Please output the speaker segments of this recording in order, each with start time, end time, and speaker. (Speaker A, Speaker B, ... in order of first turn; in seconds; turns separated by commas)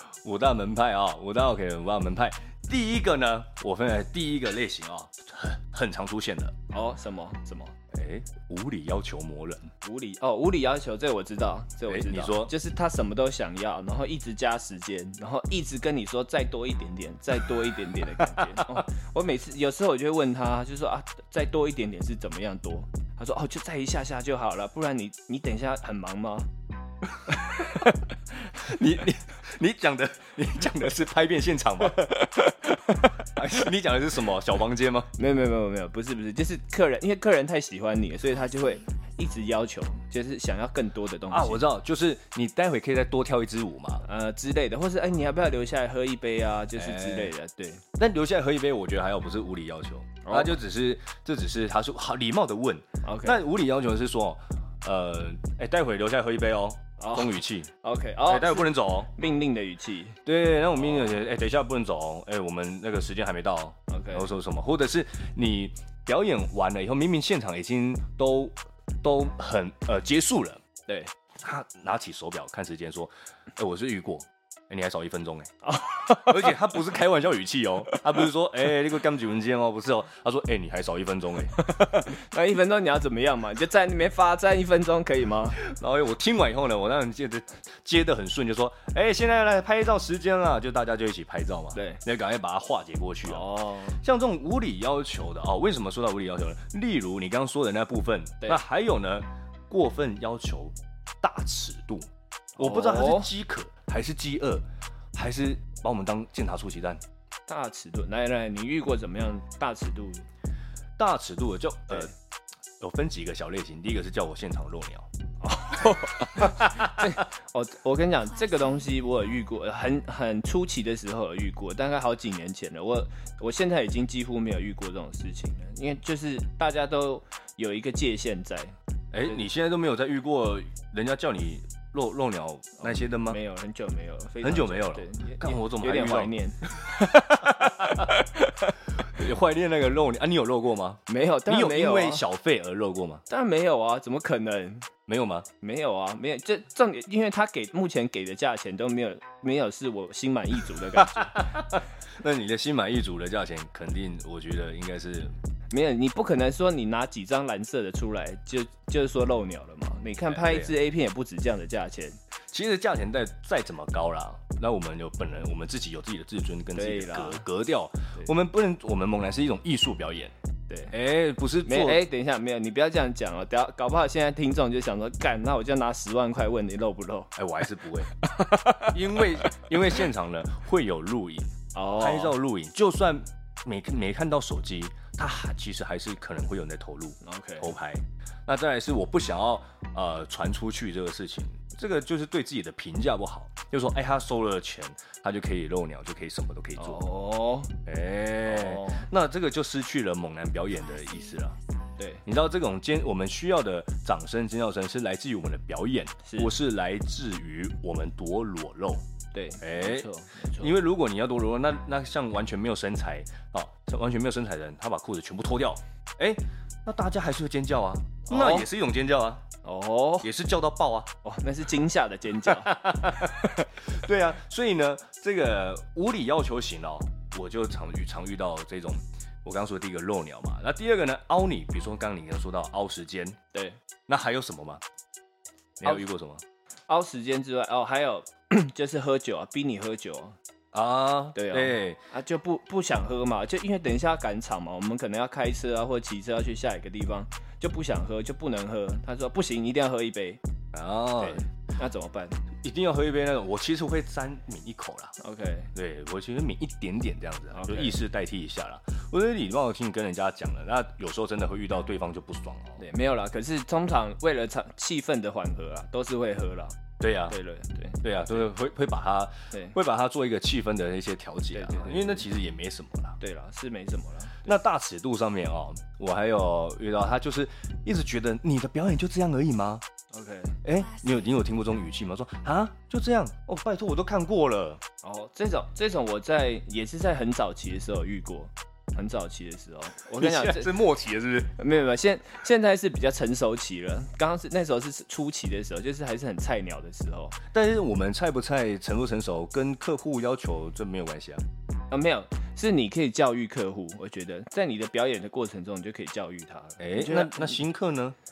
Speaker A: 0.2-6.5, Speaker B: 6.7-7.8, Speaker A: 7.9-9.7, Speaker B: 9.8-26.5, Speaker A: 11.9-12.5, Speaker A: 18.3-18.7, Speaker B: 27.4-28.0, Speaker A: 28.5-32.1, Speaker B: 32.0-32.5, Speaker A: 33.2-35.1, Speaker B: 35.2-41.6, Speaker A: 41.3-44.0, Speaker B: 44.0-47.8, Speaker A: 46.8-47.3, Speaker A: 48.0-57.7, Speaker B: 50.2-50.6, Speaker B: 53.0-53.4, Speaker B: 57.0-60.2, Speaker A: 58.3-59.1, Speaker A: 60.3-70.6, Speaker B: 63.9-64.3, Speaker B: 70.9-71.1, Speaker A: 71.4-81.6, Speaker B: 75.7-76.6, Speaker B: 81.6-85.6, Speaker A: 85.6-107.0, Speaker B: 91.7-92.0, Speaker B: 93.2-94.0, Speaker B: 102.6-103.3, Speaker B: 107.5-110.3, Speaker A: 111.0-112.1, Speaker A: 112.8-115.1, Speaker B: 115.4-128.7, Speaker A: 116.4-117.1, Speaker A: 129.1-133.4, Speaker B: 132.8-138.8, Speaker A: 134.4-136.3, Speaker A: 137.4-138.1, Speaker A: 139.0-143.2, Speaker B: 141.1-142.2, Speaker B: 143.3-144.9, Speaker A: 145.1-145.5, Speaker B: 145.6-151.5, Speaker A: 150.9-155.3, Speaker B: 155.7-162.2, Speaker A: 160.3-160.7, Speaker A: 162.5-170.3, Speaker B: 166.7-167.4, Speaker B: 170.7-170.9, Speaker A: 170.9-172.0, Speaker B: 171.6-177.3, Speaker A: 177.4-178.1, Speaker B: 178.2-179.5, Speaker A: 178.8-197.0, Speaker B: 181.7-182.4, Speaker B: 187.2-187.7, Speaker B: 196.8-197.8, Speaker A: 197.9-201.6, Speaker B: 198.5-199.1, Speaker B: 202.0-202.2, Speaker A: 202.2-209.0, Speaker B: 206.2-206.5, Speaker B: 209.3-210.7, Speaker A: 209.6-219.4, Speaker B: 218.3-218.7, Speaker B: 219.6-220.3, Speaker A: 220.2-221.1, Speaker B: 221.2-223.7, Speaker A: 222.4-233.4, Speaker A: 234.1-234.8, Speaker A: 235.8-236.4, Speaker B: 236.9-240.4, Speaker A: 240.7-242.0, Speaker B: 241.3-250.4, Speaker A: 250.7-251.4, Speaker B: 251.2-252.4, Speaker A: 252.6-255.1, Speaker B: 255.2-255.7, Speaker A: 255.7-262.8, Speaker B: 257.5-258.0, Speaker B: 262.8-268.5, Speaker A: 267.0-267.4, Speaker A: 268.0-273.2, Speaker B: 269.5-269.8, Speaker B: 271.5-272.3, Speaker B: 273.2-274.5, Speaker A: 274.4-279.8, Speaker B: 280.1-280.6, Speaker A: 280.6-284.8, Speaker B: 285.0-290.7, Speaker A: 290.1-291.5, Speaker B: 291.6-297.4, Speaker A: 297.5-301.4, Speaker B: 301.9-307.6, Speaker A: 306.8-308.2